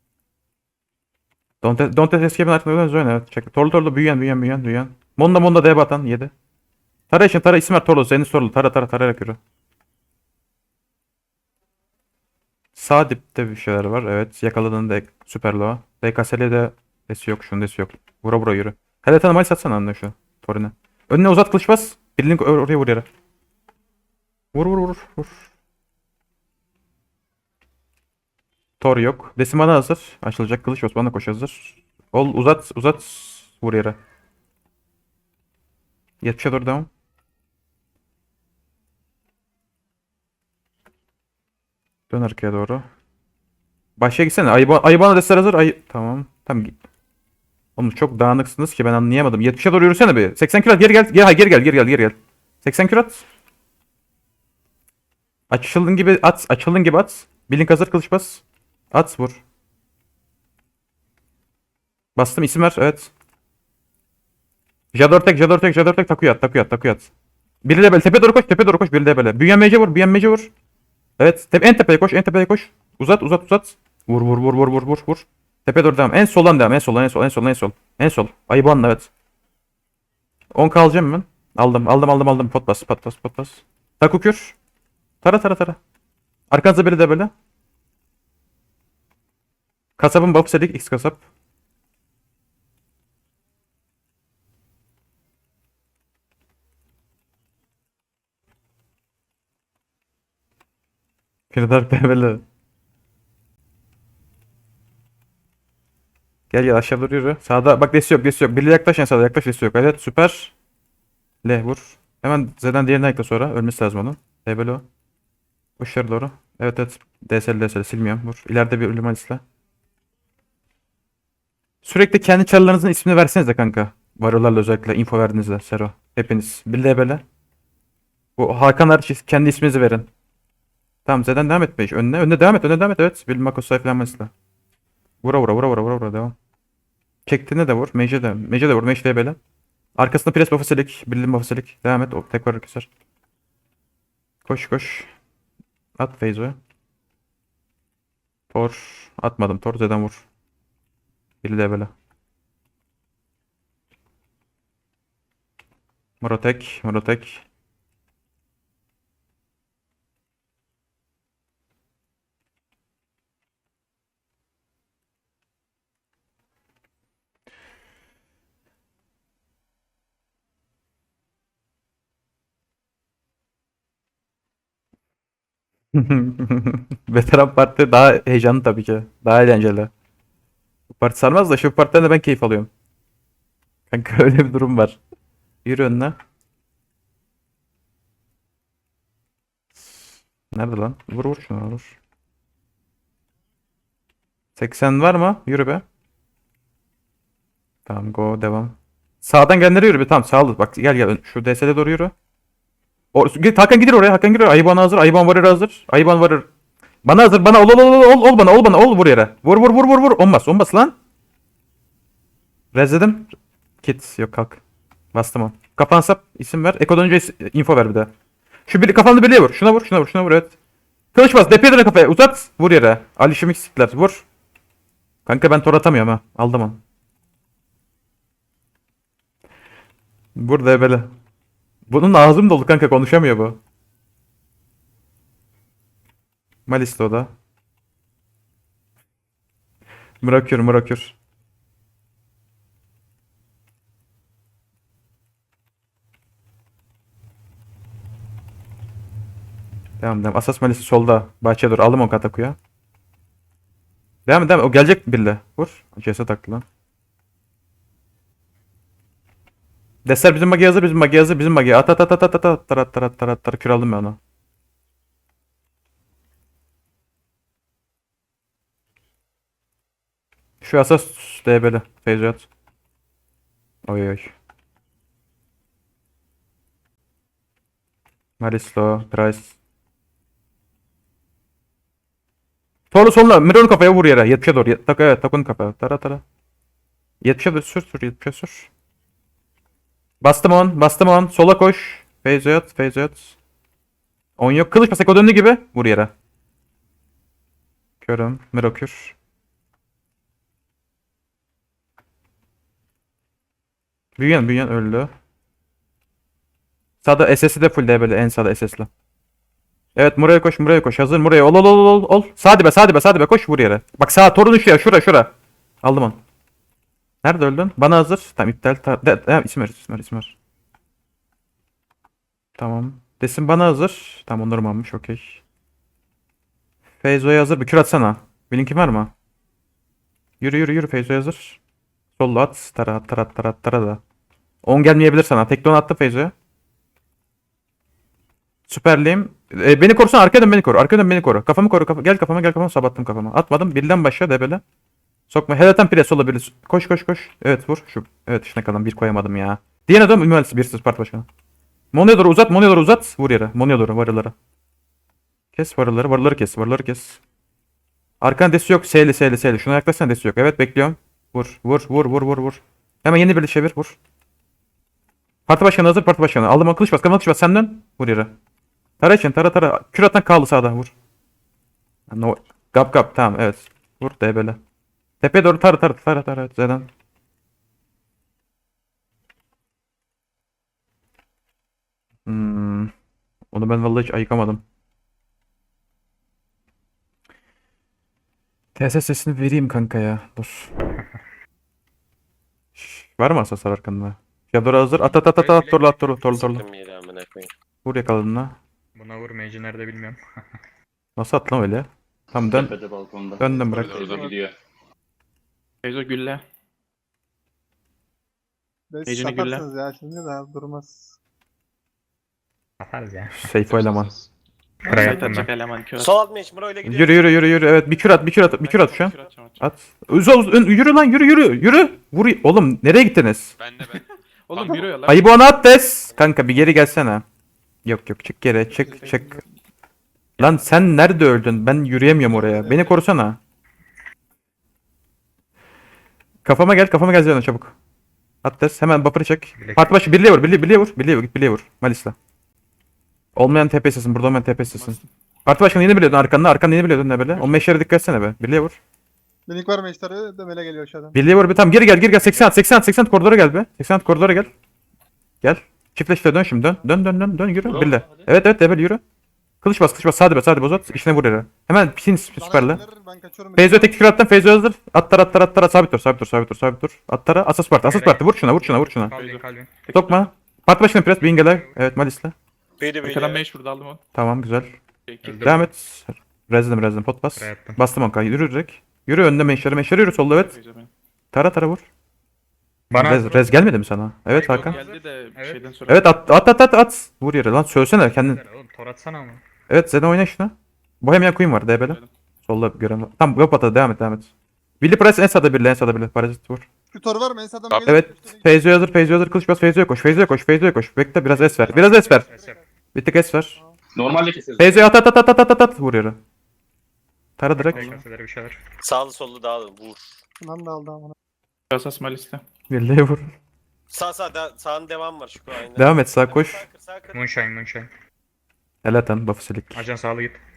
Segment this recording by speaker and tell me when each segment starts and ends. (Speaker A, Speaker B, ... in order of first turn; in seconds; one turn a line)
Speaker A: 1.6-6.3
Speaker A: 7.1-9.4
Speaker A: 12.8-23.1
Speaker A: 24.5-25.5
Speaker A: 28.8-34.0
Speaker A: 36.2-36.9
Speaker A: 42.1-42.9
Speaker A: 44.0-46.8
Speaker A: 47.8-53.2
Speaker A: 55.5-59.4
Speaker A: 62.2-63.1
Speaker A: 64.9-67.1
Speaker A: 67.6-70.5
Speaker A: 71.2-79.1
Speaker A: 80.5-84.6
Speaker A: 85.2-85.8
Speaker A: 86.5-87.3
Speaker A: 90.0-91.2
Speaker A: 101.5-102.4
Speaker A: 106.5-110.5
Speaker A: 111.4-114.8
Speaker A: 115.8-119.4
Speaker A: 121.8-127.2
Speaker A: 128.4-130.1
Speaker A: 131.1-134.3
Speaker A: 135.2-136.3
Speaker A: 137.3-139.4
Speaker A: 140.0-142.9
Speaker A: 144.5-145.1
Speaker A: 146.0-146.6
Speaker A: 148.5-150.2
Speaker A: 151.4-151.9
Speaker A: 156.2-157.4
Speaker A: 175.9-179.9
Speaker A: 180.9-182.7
Speaker A: 183.9-185.0
Speaker A: 185.7-186.2
Speaker A: 189.8-192.0
Speaker A: 194.6-195.8
Speaker A: 197.9-202.1
Speaker A: 203.1-206.5
Speaker A: 207.1-210.9
Speaker A: 212.7-214.6
Speaker A: 215.1-218.1
Speaker A: 218.7-220.6
Speaker A: 221.2-224.2
Speaker A: 225.3-226.8
Speaker A: 230.4-231.1
Speaker A: 231.9-233.6
Speaker A: 236.7-237.3
Speaker A: 240.2-241.2
Speaker A: 250.0-252.6
Speaker A: 254.3-256.6
Speaker A: 260.1-264.2
Speaker A: 270.6-272.5
Speaker A: 273.9-274.3
Speaker A: 278.4-279.6
Speaker A: 282.9-286.2
Speaker A: 287.2-288.7
Speaker A: 290.2-293.4
Speaker A: 294.4-296.1
Speaker A: 298.0-299.1
Speaker A: 304.2-305.1
Speaker A: 307.0-308.9
Speaker A: 310.0-315.3
Speaker A: 315.8-316.2
Speaker A: 317.2-320.4
Speaker A: 322.6-325.4
Speaker A: 327.0-329.1
Speaker A: 330.4-331.6
Speaker A: 332.2-334.0
Speaker A: 334.6-336.3
Speaker A: 338.7-344.6
Speaker A: 345.3-351.3
Speaker A: 351.9-354.3
Speaker A: 355.5-357.2
Speaker A: 358.2-364.0
Speaker A: 365.5-368.3
Speaker A: 369.0-370.9
Speaker A: 372.1-374.6
Speaker A: 375.2-376.9
Speaker A: 382.3-382.9
Speaker A: 383.5-384.6
Speaker A: 388.8-390.7
Speaker A: 392.8-396.6
Speaker B: 395.2-396.1
Speaker C: 396.3-397.5
Speaker A: 397.9-398.6
Speaker B: 398.9-400.2
Speaker A: 401.2-402.7
Speaker D: 402.4-403.5
Speaker A: 403.4-404.0
Speaker E: 403.5-404.4
Speaker F: 403.5-404.3
Speaker D: 404.0-404.6
Speaker G: 405.8-406.4
Speaker E: 408.9-411.1
Speaker G: 409.1-409.7
Speaker B: 412.8-413.3
Speaker A: 413.3-414.1
Speaker F: 413.6-414.3
Speaker B: 414.9-415.5
Speaker G: 414.9-416.1
Speaker C: 416.0-417.4
Speaker A: 416.9-423.6
Speaker G: 418.5-419.7
Speaker F: 423.6-425.0
Speaker G: 423.8-425.4
Speaker A: 425.0-427.2
Speaker C: 426.1-426.4
Speaker A: 427.9-429.4
Speaker E: 428.7-429.2
Speaker G: 428.8-429.5
Speaker G: 430.4-430.8
Speaker A: 430.4-433.4
Speaker E: 432.2-433.0
Speaker A: 436.4-437.7
Speaker A: 438.4-442.1
Speaker B: 439.6-439.9
Speaker A: 443.4-448.8
Speaker G: 444.6-445.1
Speaker E: 449.5-451.1
Speaker A: 451.1-454.5
Speaker A: 455.4-459.0
Speaker D: 457.6-458.3
Speaker A: 459.6-462.8
Speaker E: 462.4-464.0
Speaker A: 463.6-469.1
Speaker B: 467.8-469.7
Speaker G: 469.1-470.3
Speaker A: 469.9-472.3
Speaker B: 471.2-471.8
Speaker C: 472.8-473.4
Speaker G: 473.0-474.0
Speaker A: 474.1-474.7
Speaker G: 475.1-475.6
Speaker B: 475.2-475.6
Speaker A: 475.3-480.6
Speaker B: 477.4-477.8
Speaker G: 480.3-480.9
Speaker A: 481.3-481.8
Speaker B: 482.9-483.5
Speaker A: 482.9-484.8
Speaker B: 484.3-485.6
Speaker G: 484.5-486.1
Speaker A: 485.9-488.4
Speaker B: 488.1-489.4
Speaker A: 489.7-494.3
Speaker G: 491.7-492.1
Speaker A: 494.8-496.7
Speaker E: 496.9-498.8
Speaker A: 497.8-502.3
Speaker E: 501.3-502.6
Speaker B: 501.7-502.6
Speaker A: 502.9-503.6
Speaker D: 503.9-504.9
Speaker A: 504.6-506.2
Speaker A: 507.4-507.9
Speaker B: 507.6-508.6
Speaker G: 507.7-508.0
Speaker C: 508.8-510.0
Speaker F: 509.1-509.8
Speaker E: 510.4-511.1
Speaker G: 511.7-512.4
Speaker A: 512.7-513.3
Speaker C: 513.9-517.1
Speaker F: 514.1-515.6
Speaker A: 515.7-516.6
Speaker B: 517.1-517.9
Speaker A: 518.8-519.9
Speaker B: 519.7-520.4